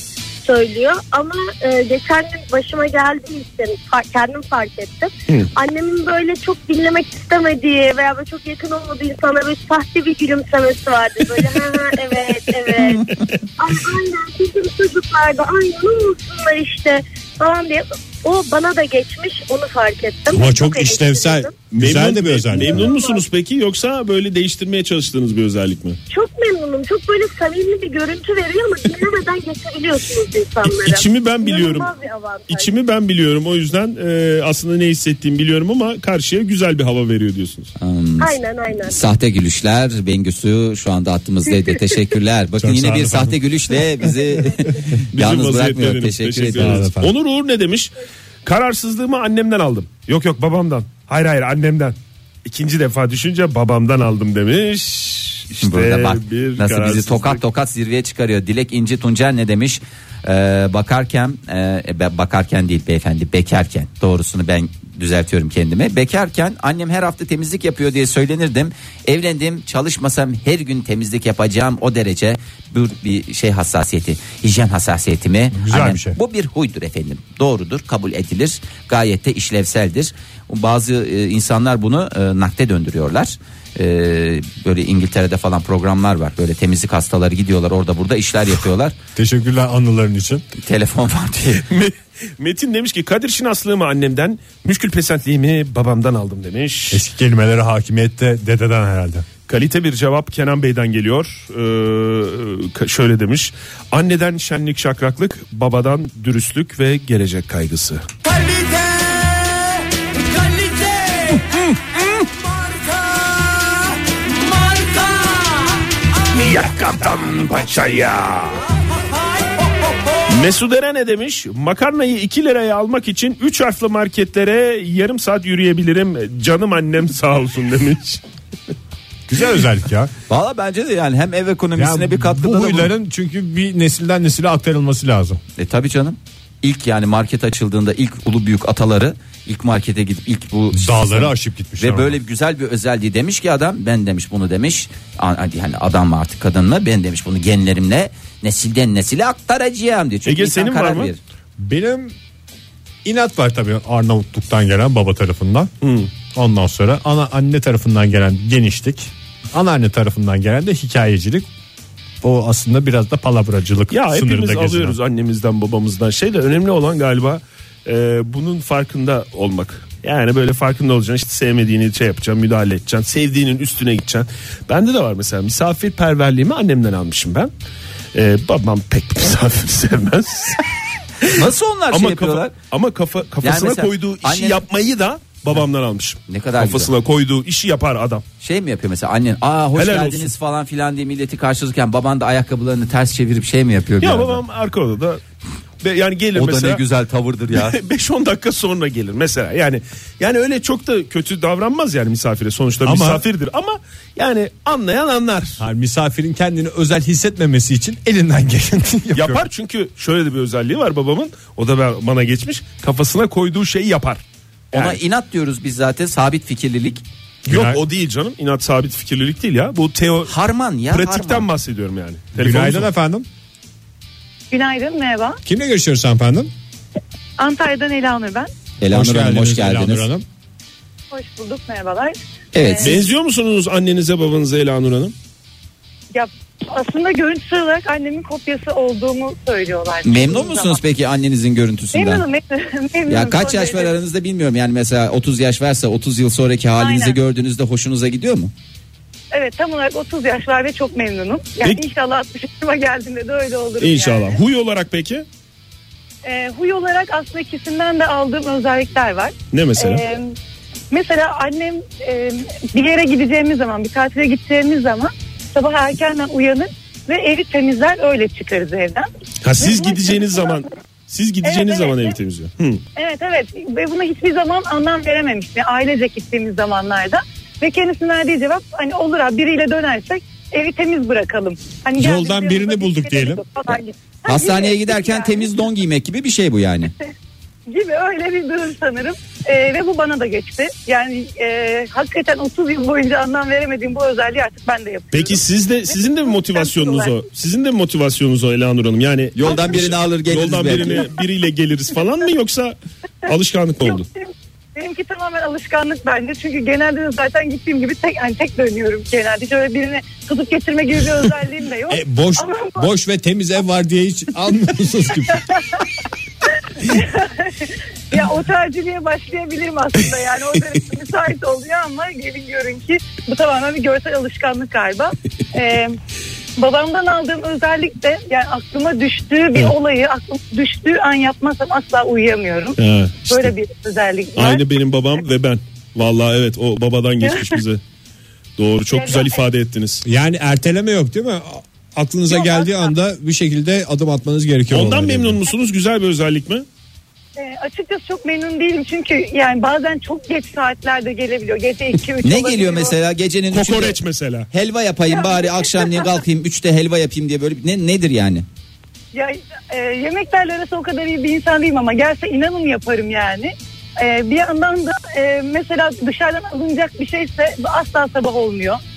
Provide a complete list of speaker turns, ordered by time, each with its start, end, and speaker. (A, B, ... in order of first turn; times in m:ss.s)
0:00.4-0:21.6 A
0:12.9-0:13.1 B
0:20.3-0:22.9 C
0:21.7-0:26.0 B
0:22.5-0:23.2 A
0:26.1-0:32.7 A
0:30.6-0:31.9 B
0:32.5-0:37.7 B
0:37.8-0:46.8 D
0:38.2-0:39.0 A
0:42.6-0:43.4 C
0:45.1-0:47.9 B
0:46.5-0:47.1 C
0:48.4-0:57.4 B
0:55.6-1:28.9 D
1:15.5-1:16.2 C
1:29.2-1:30.4 C
1:30.6-1:31.6 D
1:31.6-1:37.0 B
1:36.9-1:39.2 C
1:39.4-1:48.0 B
1:56.4-1:58.6 B
1:57.3-1:57.8 D
2:00.3-2:08.2 B
2:09.3-2:10.1 C
2:10.3-2:12.9 D
2:11.8-2:15.4 C
2:15.6-2:31.2 D
2:20.7-2:22.2 C
2:30.2-2:31.1 B
2:31.6-2:32.1 C
2:33.0-2:35.7 C
2:35.8-2:36.1 B
2:36.2-2:41.5 C
2:42.2-2:45.0 C
2:43.9-2:57.5 B
2:58.1-3:00.6 B
3:01.3-3:02.6 D
3:01.9-3:08.2 B
3:03.4-3:04.6 D
3:06.3-3:06.9 D
3:08.4-3:14.4 D
3:09.7-3:10.3 B
3:14.0-3:15.2 B
3:15.8-3:16.8 B
3:16.3-3:17.8 D
3:17.5-3:25.6 B
3:22.8-3:23.2 C
3:25.6-3:29.4 C
3:29.1-3:35.0 B
3:34.7-3:37.0 D
3:37.5-3:40.3 B
3:37.5-3:37.8 C
3:40.3-3:41.5 D
3:40.9-3:42.9 B
3:42.4-3:43.3 C
3:44.5-3:45.4 E
3:45.4-3:46.5 C
3:47.4-3:48.5 E
3:48.8-3:50.1 D
3:48.9-3:50.2 C
3:51.1-3:53.0 E
3:52.5-3:53.0 D
3:52.8-3:55.1 B
3:56.1-4:00.8 E
4:00.0-4:02.2 D
4:01.9-4:03.9 E
4:03.1-4:08.5 D
4:06.8-4:07.2 E
4:09.3-4:14.4 E
4:13.8-4:15.2 B
4:16.2-4:20.3 E
4:19.5-4:20.0 B
4:20.9-4:29.1 E
4:29.4-4:32.8 B
4:29.6-4:30.6 E
4:31.4-4:32.1 E
4:33.0-4:45.5 E
4:42.0-4:43.4 C
4:44.2-4:46.9 D
4:47.7-4:57.2 E
4:55.1-5:04.1 B
4:59.3-5:01.1 D
5:04.8-5:12.8 E
5:11.9-5:15.4 C
5:16.9-5:26.0 E
5:26.6-5:34.6 E
5:32.8-5:33.5 B
5:34.4-5:37.8 B
5:38.6-5:40.0 B
5:38.9-5:39.4 E
5:40.0-5:45.4 C
5:42.3-5:42.9 E
5:44.7-5:46.6 B
5:47.4-5:52.9 E
5:52.2-5:54.0 D
5:53.5-5:54.5 B
5:54.5-5:58.4 D
5:55.1-5:55.9 E
5:59.1-6:08.8 E